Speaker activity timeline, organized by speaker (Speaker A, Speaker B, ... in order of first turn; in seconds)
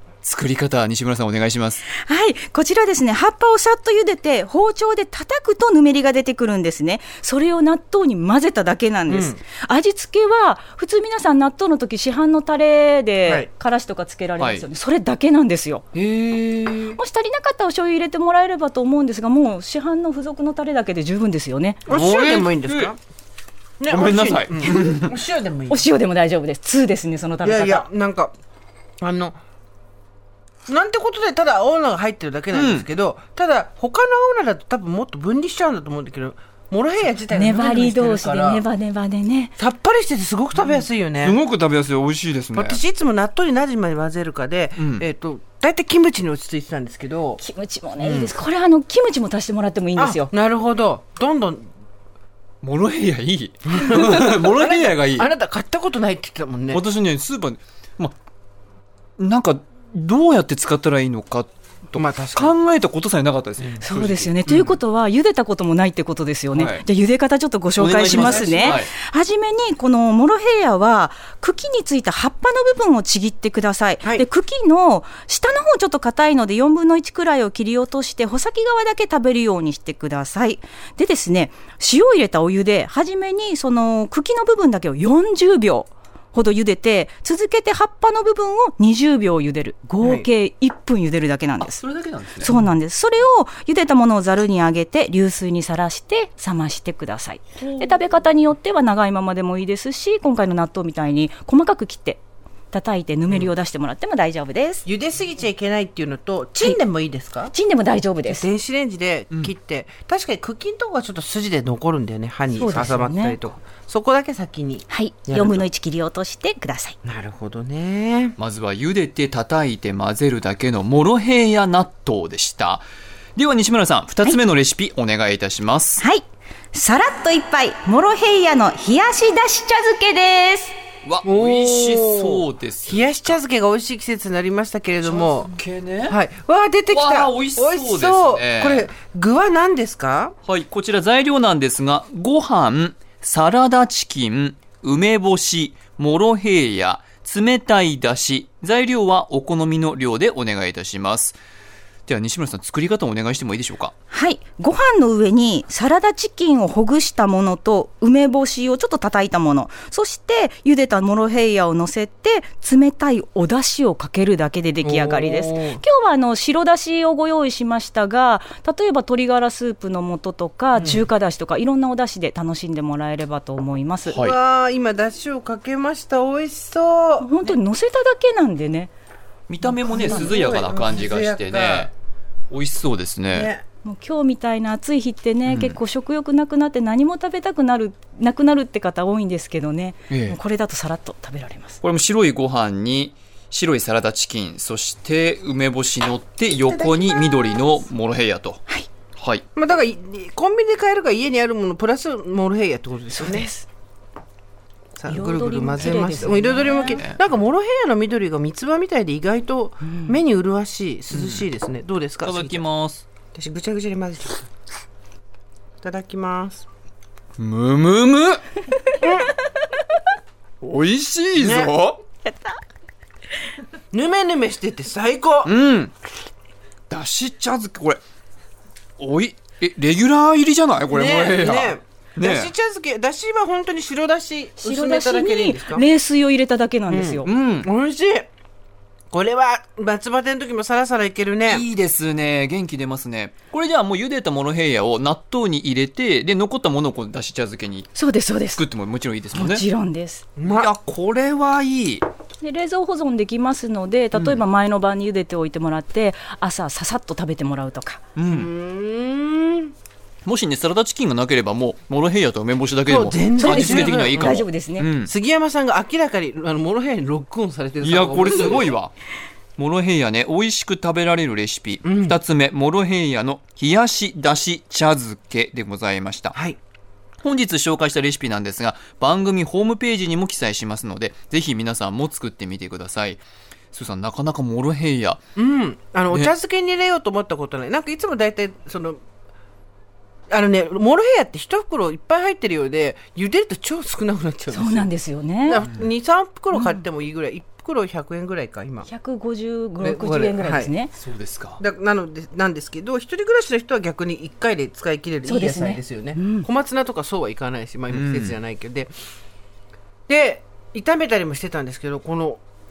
Speaker A: 0.2-1.8, 14.4-14.7, 15.9-17.0, 21.9-22.9, 23.9-25.1, 32.5-32.9, 40.7-42.8, 44.8-45.0, 52.6-55.3, 56.7-58.1, 59.2-64.8, 66.5-66.8, 67.8-68.9, 91.6-92.5, 97.6-98.0, 118.4-126.0, 131.0-133.4, 135.0-136.1, 136.9-138.9, 140.4-151.4, 152.1-153.9, 179.5-181.9, 182.5-183.5, 185.4-185.8, 190.1-190.4, 191.8-198.6, 199.2-199.4, 205.8-207.2, 211.1-211.4, 212.2-213.0, 217.4-218.4, 220.6-222.0, 225.4-225.9, 226.9-228.0, 229.0-232.5, 237.2-237.7, 241.4-247.9, 248.5-249.6, 250.4-252.1, 258.1-258.5, 260.2-265.1, 267.8-268.9, 269.6-276.3, 277.2-283.2, 283.7-285.2, 300.9-301.6, 307.9-308.4
Speaker B: 1.9-15.8, 16.9-21.8, 25.7-27.9, 37.3-39.5, 47.4-50.3, 63.8-91.8, 92.4-104.8, 107.5-108.5, 112.5-113.4, 114.9-117.0, 126.0-130.8, 154.1-174.2, 177.2-178.9, 179.9-180.3, 183.8-191.8, 203.1-203.7, 205.1-207.0, 209.8-210.2, 222.2-222.6, 234.6-237.3, 247.9-248.6, 249.3-250.2, 252.4-258.0, 263.4-264.9, 294.5-295.6, 296.5-296.8, 298.8-300.9, 305.2-306.5
Speaker C: 9.1-9.4, 21.9-23.0, 23.8-25.9, 27.4-28.3, 29.0-29.4, 30.7-38.6, 39.6-41.4, 42.5-47.4, 48.0-48.4, 50.0-51.7, 53.7-56.8, 61.9-62.6, 68.1-68.8, 90.0-90.3, 104.8-107.5, 108.3-115.6, 117.0-118.4, 131.2-135.5, 136.1-140.3, 164.8-165.8, 170.8-171.1, 174.1-177.6, 179.7-181.9, 183.3-183.6, 199.5-203.5, 204.9-212.6, 213.3-214.5, 215.8-216.6, 219.0-219.3, 221.3-221.7, 223.9-225.5, 230.9-235.9, 236.9-238.3, 239.1-241.7, 250.4-250.7, 258.2-259.7, 262.9-264.4, 264.9-268.7, 271.8-272.2, 276.3-276.6, 285.4-289.0, 290.3-294.9, 295.5-298.9, 299.8-300.7, 301.6-308.9, 310.1-312.4